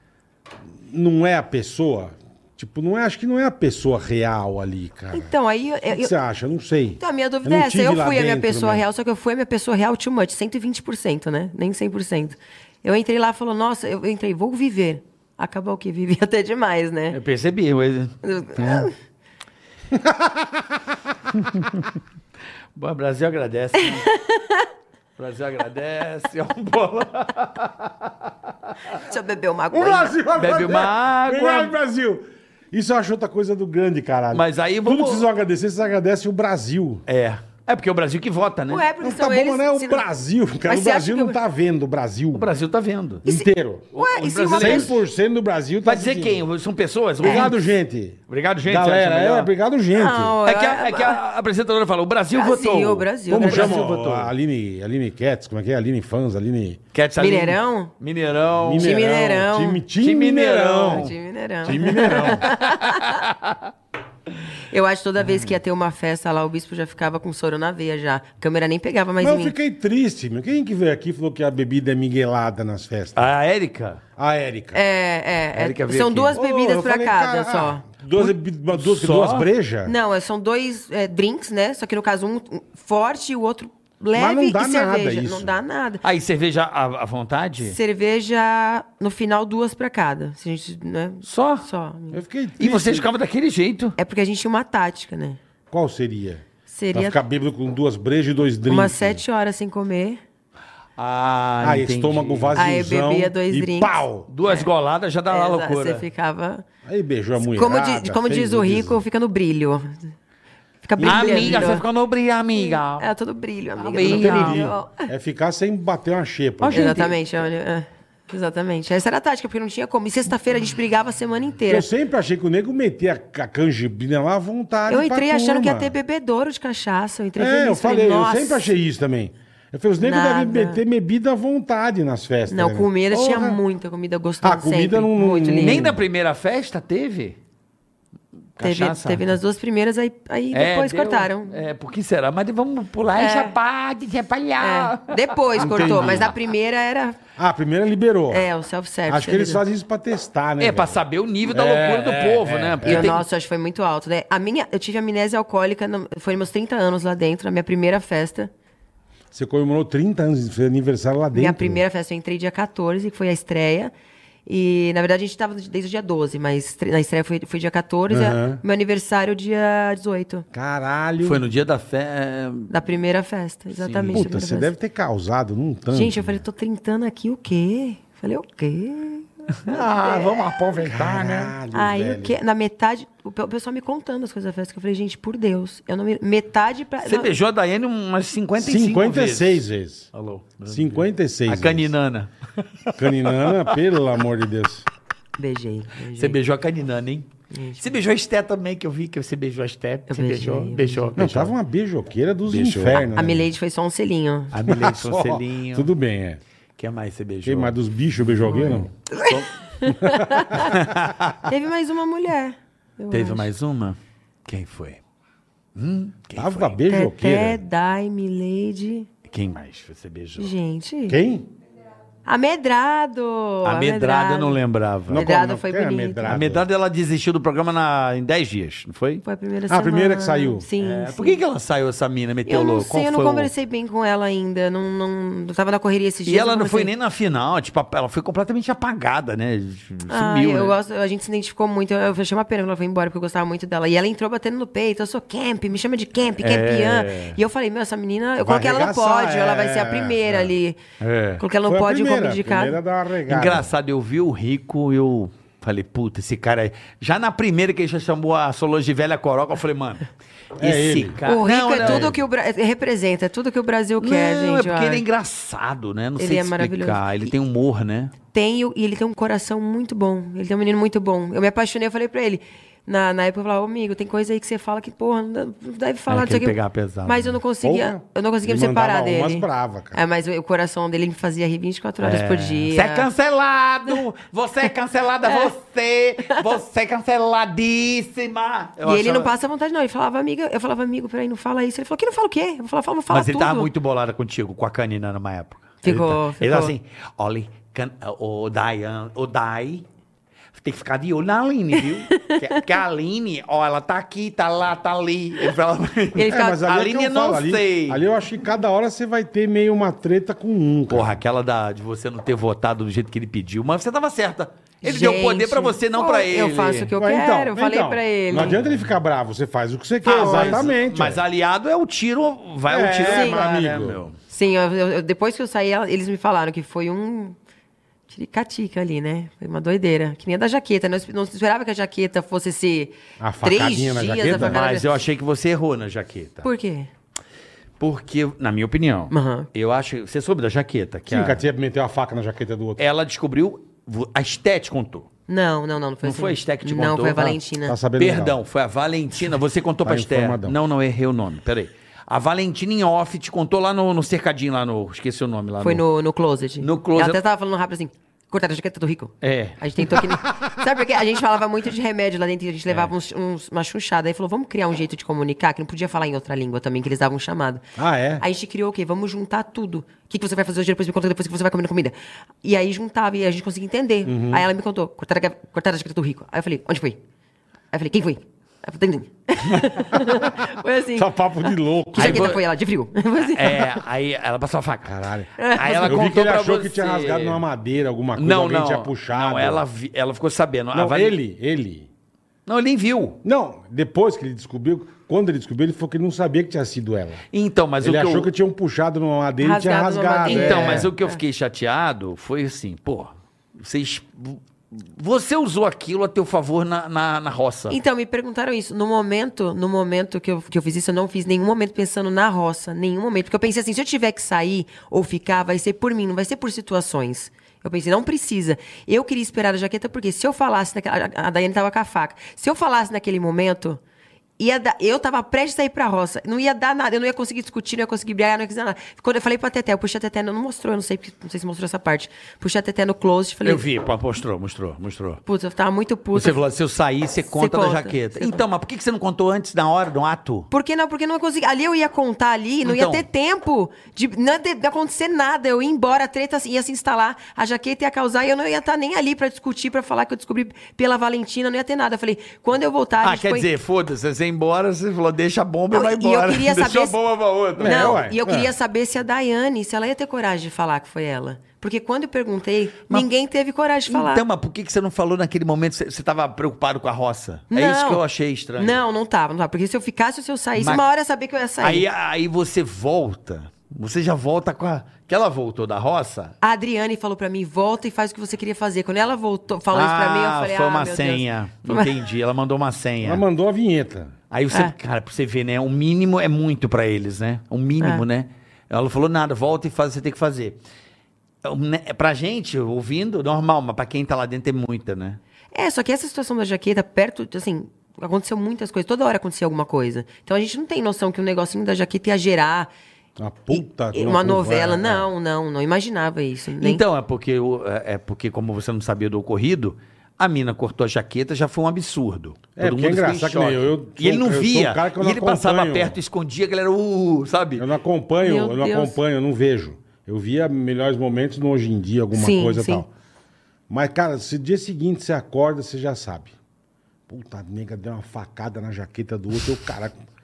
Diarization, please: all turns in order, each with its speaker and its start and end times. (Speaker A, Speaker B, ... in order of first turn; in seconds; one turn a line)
Speaker A: 0.9-5.3
Speaker B: 5.1-6.1
Speaker A: 5.9-8.8
Speaker B: 7.0-17.2
Speaker C: 17.1-18.1
Speaker B: 18.2-18.9
Speaker A: 19.9-20.5
Speaker C: 21.4-21.8
Speaker C: 22.8-24.1
Speaker B: 23.9-24.7
Speaker C: 25.2-28.1
Speaker B: 29.0-30.2
Speaker A: 29.7-37.0
Speaker C: 30.4-31.7
Speaker C: 34.3-35.3
Speaker C: 37.1-38.9
Speaker B: 38.7-40.0
Speaker A: 39.0-42.5
Speaker B: 40.7-41.4
Speaker C: 42.3-43.2
Speaker A: 43.2-43.9
Speaker B: 43.2-44.9
Speaker C: 44.0-44.9
Speaker A: 44.5-46.4
Speaker C: 45.8-47.6
Speaker B: 47.2-47.5
Speaker A: 47.2-50.4
Speaker C: 48.3-49.5
Speaker B: 50.0-51.2
Speaker C: 50.5-54.3
Speaker B: 52.3-53.9
Speaker A: 53.3-56.8
Speaker C: 56.9-58.9
Speaker B: 57.2-57.9
Speaker A: 58.6-61.1
Speaker B: 58.8-59.8
Speaker C: 60.0-61.1
Speaker B: 60.9-63.2
Speaker A: 61.6-62.5
Speaker C: 62.2-63.6
Speaker B: 64.7-69.5
Speaker A: 69.2-73.3
Speaker C: 73.2-74.0
Speaker A: 74.2-74.8
Speaker B: 74.7-77.8
Speaker C: 75.5-76.4
Speaker A: 76.3-79.9
Speaker C: 78.1-79.5
Speaker B: 79.8-86.0
Speaker A: 84.2-85.5
Speaker C: 86.0-87.8
Speaker B: 87.6-92.2
Speaker C: 91.2-91.7
Speaker A: 92.1-93.1
Speaker C: 92.6-94.0
Speaker B: 94.0-95.4
Speaker A: 95.7-99.2
Speaker B: 96.7-97.2
Speaker B: 98.7-100.2
Speaker C: 101.0-102.8
Speaker A: 101.6-104.3
Speaker B: 102.6-104.7
Speaker C: 104.3-106.1
Speaker B: 105.3-106.6
Speaker A: 106.8-109.0
Speaker B: 107.4-110.1
Speaker B: 110.8-111.8
Speaker C: 111.0-113.1
Speaker A: 111.0-111.8
Speaker B: 112.6-115.1
Speaker C: 113.8-114.7
Speaker A: 114.0-117.0
Speaker C: 116.6-117.2
Speaker B: 116.7-121.9
Speaker A: 121.7-125.9
Speaker B: 124.9-128.7
Speaker A: 127.4-133.6
Speaker B: 130.0-130.8
Speaker B: 132.5-135.9
Speaker A: 134.4-136.0
Speaker C: 135.6-137.4
Speaker C: 138.6-139.2
Speaker B: 138.6-141.6
Speaker C: 140.5-146.3
Speaker B: 143.2-143.6
Speaker B: 144.6-147.2
Speaker A: 145.6-146.3
Speaker A: 147.4-148.5
Speaker B: 148.3-149.6
Speaker A: 149.1-153.2
Speaker C: 150.6-153.2
Speaker B: 152.8-158.5
Speaker A: 159.3-161.8
Speaker B: 161.3-163.9
Speaker B: 164.5-170.4
Speaker A: 168.1-168.6
Speaker A: 170.5-171.4
Speaker C: 171.2-172.7
Speaker B: 172.7-174.7
Speaker C: 173.8-174.3
Speaker A: 174.1-176.4
Speaker B: 175.9-180.4
Speaker C: 179.7-181.5
Speaker A: 180.9-182.4
Speaker B: 181.7-187.3
Speaker C: 187.0-189.6
Speaker A: 188.6-190.1
Speaker C: 190.1-193.7
Speaker A: 190.7-191.9
Speaker A: 193.0-194.9
Speaker B: 195.4-196.4
Speaker C: 196.2-201.5
Speaker B: 197.5-197.8
Speaker B: 200.1-201.0
Speaker A: 201.2-203.5
Speaker C: 202.5-203.1
Speaker B: 203.2-204.5
Speaker C: 204.5-205.9
Speaker A: 204.7-206.4
Speaker C: 206.8-209.7
Speaker A: 207.4-208.9
Speaker B: 209.1-210.8
Speaker A: 210.0-210.6
Speaker C: 210.6-211.4
Speaker B: 211.4-213.5
Speaker C: 213.1-215.0
Speaker C: 215.8-216.8
Speaker A: 216.4-217.6
Speaker B: 216.9-219.1
Speaker C: 219.3-220.5
Speaker B: 220.4-221.2
Speaker A: 221.1-221.5
Speaker B: 222.3-224.6
Speaker C: 223.6-225.2
Speaker A: 225.1-226.7
Speaker B: 225.1-226.4
Speaker C: 226.3-229.2
Speaker B: 229.2-231.4
Speaker A: 229.7-230.7
Speaker C: 230.8-233.5
Speaker B: 232.5-236.9
Speaker C: 236.3-240.7
Speaker B: 240.1-250.8
Speaker C: 246.4-247.4
Speaker A: 248.4-250.5
Speaker C: 251.0-251.4
Speaker B: 251.4-252.8
Speaker A: 251.7-253.7
Speaker C: 253.3-262.2
Speaker A: 260.6-261.2
Speaker B: 261.3-265.0
Speaker A: 261.8-262.1
Speaker C: 264.0-268.1
Speaker B: 266.2-267.3
Speaker B: 268.3-283.1
Speaker C: 276.1-277.4
Speaker A: 277.6-280.0
Speaker C: 282.0-289.3
Speaker B: 285.2-285.5
Speaker B: 288.8-293.7
Speaker C: 293.1-299.9
Speaker B: 295.8-296.8
Speaker C: 300.5-308.0
Speaker B: 301.8-302.4
Speaker B: 306.1-306.6
Speaker A: 306.2-311.1
Speaker C: 310.9-316.9
Speaker B: 314.8-318.6
Speaker A: 317.0-321.2
Speaker C: 318.4-318.8
Speaker C: 320.0-324.2
Speaker B: 320.1-320.7
Speaker A: 322.7-324.0
Speaker B: 323.1-323.5
Speaker B: 324.3-327.4
Speaker B: 328.1-334.9
Speaker A: 333.2-334.6
Speaker C: 334.2-336.5
Speaker B: 336.4-336.9
Speaker C: 337.8-341.4
Speaker B: 339.1-339.5
Speaker A: 341.1-342.9
Speaker C: 342.8-345.1
Speaker B: 345.3-347.8
Speaker C: 346.0-347.4
Speaker A: 347.6-348.4
Speaker C: 348.0-355.8
Speaker A: 349.8-350.6
Speaker B: 355.6-367.6
Speaker C: 356.6-357.2
Speaker C: 359.2-360.3
Speaker A: 367.8-368.2
Speaker B: 368.2-377.0
Speaker A: 374.1-374.4
Speaker B: 377.7-383.7
Speaker A: 380.9-382.4
Speaker C: 382.0-382.4
Speaker C: 383.3-385.0
Speaker A: 384.9-389.6
Speaker B: 385.4-386.1
Speaker C: 385.5-387.4
Speaker C: 388.2-391.1
Speaker A: 390.7-391.9
Speaker C: 392.5-393.2
Speaker A: 393.2-397.2
Speaker C: 397.3-398.3
Speaker A: 397.8-400.9
Speaker B: 399.4-401.2
Speaker C: 400.3-407.8
Speaker B: 407.7-423.8
Speaker B: 424.4-433.6
Speaker C: 433.4-435.2
Speaker B: 435.3-436.4
Speaker C: 436.1-440.5
Speaker B: 437.3-438.4
Speaker B: 440.5-453.5
Speaker C: 442.6-443.1
Speaker C: 453.0-458.0
Speaker B: 455.7-456.9
Speaker A: 457.6-458.5
Speaker B: 457.6-464.2
Speaker C: 463.9-468.8
Speaker B: 467.5-468.0
Speaker B: 468.6-471.9
Speaker C: 470.6-470.8
Speaker C: 471.6-476.4
Speaker B: 476.4-481.9
Speaker C: 479.7-483.2
Speaker A: 483.0-484.1
Speaker C: 484.3-490.6
Speaker C: 491.4-495.2
Speaker B: 495.5-502.7
Speaker A: 503.2-505.1
Speaker B: 503.5-506.8
Speaker C: 506.6-517.7
Speaker A: 512.6-516.0
Speaker A: 517.6-522.9
Speaker B: 518.2-519.0
Speaker B: 522.1-522.9
Speaker A: 523.7-526.3
Speaker A: 527.1-530.0